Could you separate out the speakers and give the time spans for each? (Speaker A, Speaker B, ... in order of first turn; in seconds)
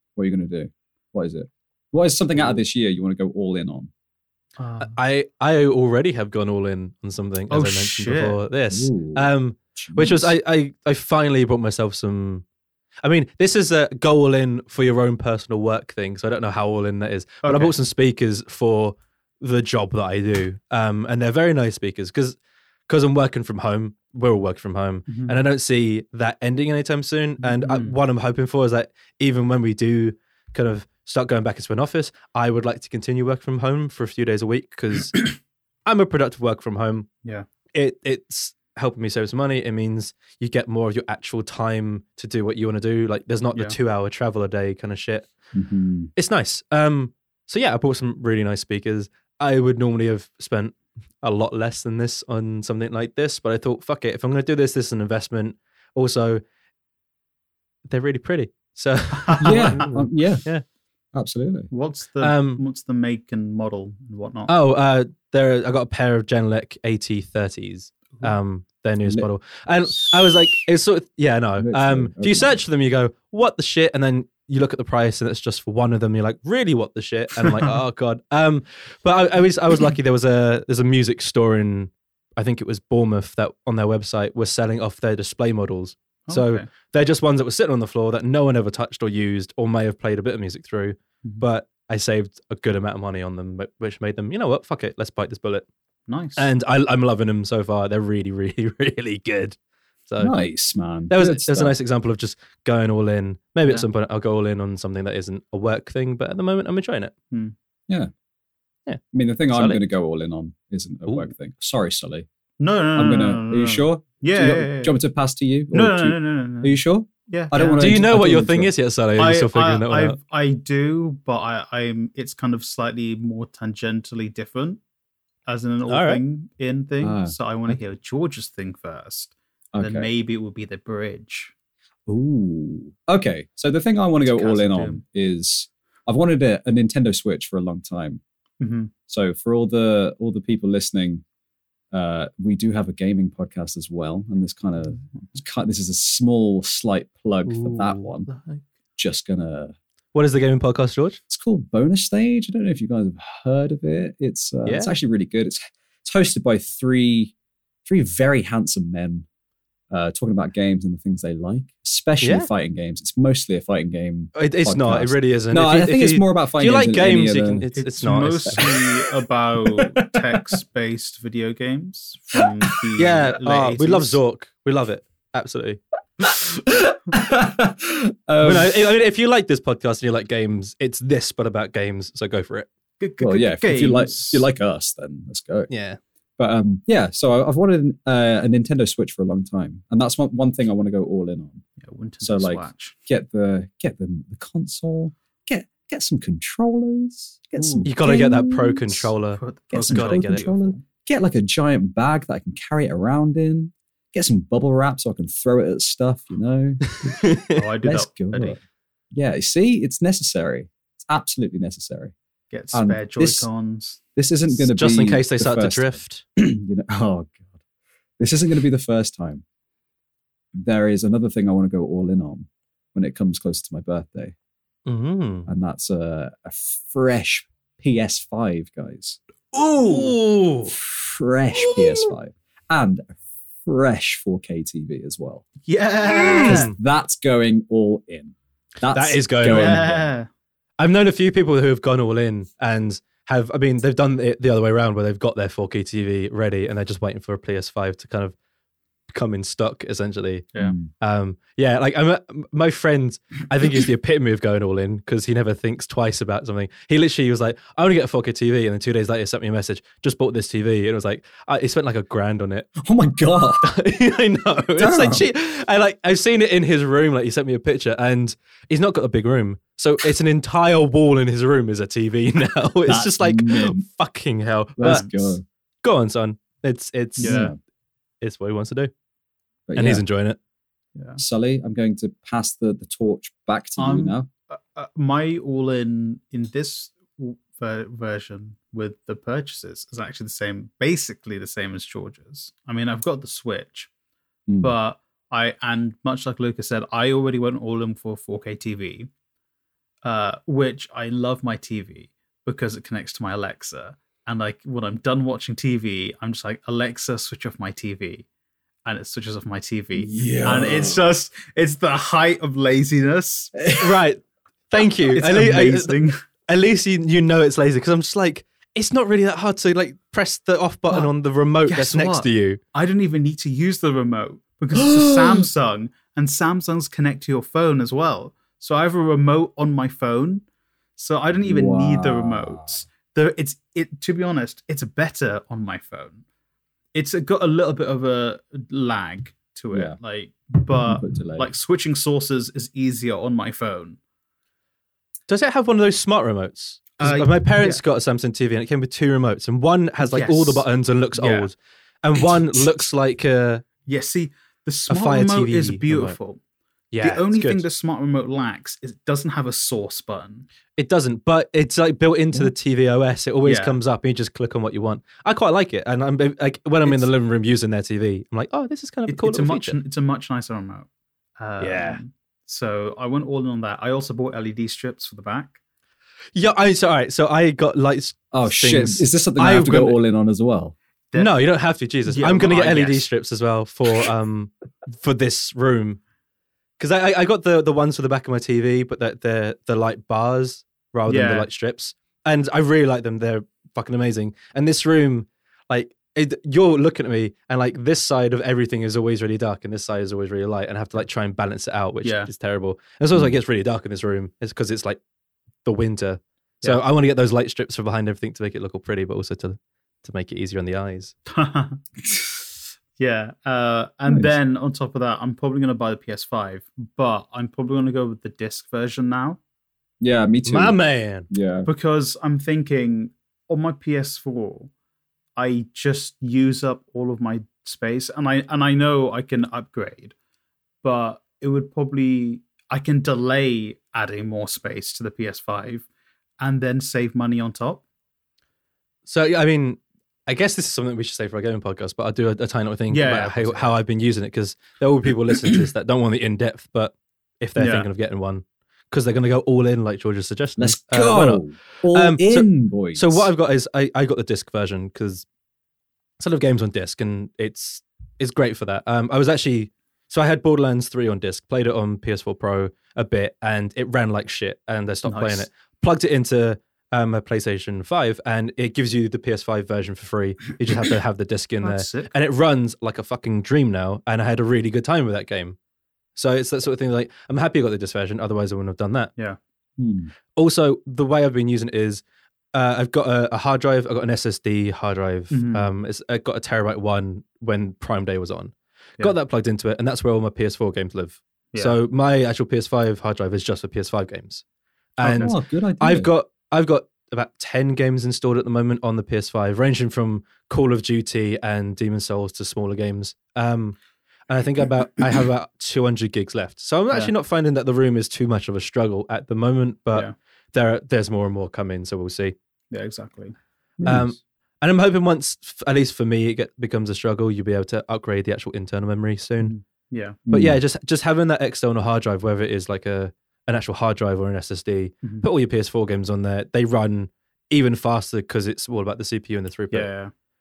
Speaker A: 0.2-3.9, 8.7-10.3, 45.5-46.1, 59.4-60.5, 61.1-61.7, 71.6-72.6, 100.2-101.7, 109.1-112.2, 112.9-118.7, 127.0-127.8, 129.7-130.1, 132.1-138.2, 139.1-141.2, 141.9-148.3, 149.0-149.7, 151.3-157.3, 157.8-159.2, 159.9-167.7, 168.5-168.8, 170.0-170.3, 176.4-178.9, 183.2-185.7, 186.4-191.6, 192.2-199.1, 199.7-207.1, 207.8-208.6, 209.1-212.1, 212.7-213.5, 214.1-217.4, 218.2-219.4, 220.6-224.3, 225.5-229.2, 230.7-235.4, 236.3-240.1, 250.6-250.9, 262.8-263.7, 264.8-265.3, 272.9-273.8, 274.8-275.4, 277.2-277.6, 279.7-280.0, 281.2-284.3, 294.5-294.7, 310.0-311.0, 313.5-313.9, 324.7-325.5, 331.4-332.8, 339.7-340.0, 340.8-341.5, 378.3-380.7, 414.1-414.3, 420.0-420.8, 421.3-421.7, 450.6-453.3, 479.8-480.1, 495.0-496.1, 513.8-514.1, 520.3-520.6
Speaker B: 4.6-4.9, 7.5-8.4, 17.4-17.7, 25.1-25.4, 27.4-28.0, 59.1-59.8, 61.7-64.5, 86.3-86.7, 96.1-96.5, 112.6-115.0, 115.7-118.0, 119.2-124.8, 125.5-131.5, 134.2-135.0, 138.6-138.9, 167.7-174.2, 183.0-184.4, 191.8-192.9, 197.5-197.9, 199.4-200.8, 207.5-208.6, 212.5-214.0, 229.5-230.2, 235.6-236.7, 239.4-240.3, 274.8-275.2, 277.2-277.5, 280.9-281.2, 283.8-293.9, 294.6-299.1, 300.0-308.2, 308.8-313.6, 315.1-316.2, 321.7-330.4, 331.0-336.2, 336.9-344.0, 347.0-347.8, 350.0-351.5, 353.9-356.4, 357.0-360.5, 363.4-363.8, 366.8-367.1, 369.1-375.6, 382.1-383.0, 391.1-391.5, 402.0-402.3, 411.3-412.4, 413.0-419.4, 421.6-424.7, 425.4-430.1, 430.8-435.9, 436.4-437.8, 442.9-443.7, 447.6-447.9, 465.1-465.5, 471.6-472.1, 485.3-485.7, 512.7-513.3, 519.4-520.2, 529.7-530.1
Speaker C: 4.8-12.4, 13.0-22.4, 22.9-35.3, 35.9-37.1, 37.7-45.3, 46.1-56.4, 57.9-60.6, 62.2-62.6, 64.5-95.7, 96.4-99.5, 100.1-100.3, 101.1-107.1, 108.8-109.8, 117.8-120.2, 125.9-126.2, 147.5-148.6, 150.1-151.2, 154.6-154.9, 162.2-162.5, 164.3-168.7, 173.0-175.8, 178.4-182.7, 185.7-186.0, 197.8-200.5, 207.0-207.6, 214.6-216.2, 224.8-225.5, 229.9-230.7, 236.2-236.7, 238.9-239.9, 240.8-248.3, 249.1-262.7, 263.6-277.5, 278.2-278.9, 279.7-280.4, 313.8-322.6, 345.3-353.6, 354.9-356.2, 356.9-357.6, 360.8-369.8, 371.6-372.0, 376.3-380.0, 381.1-386.0, 386.8-405.0, 405.6-411.1, 420.4-421.3, 439.1-455.2, 456.2-475.6, 476.1-479.1, 480.4-482.0, 482.5-494.4, 495.0-503.8, 504.3-512.3, 513.8-519.5, 520.3-529.9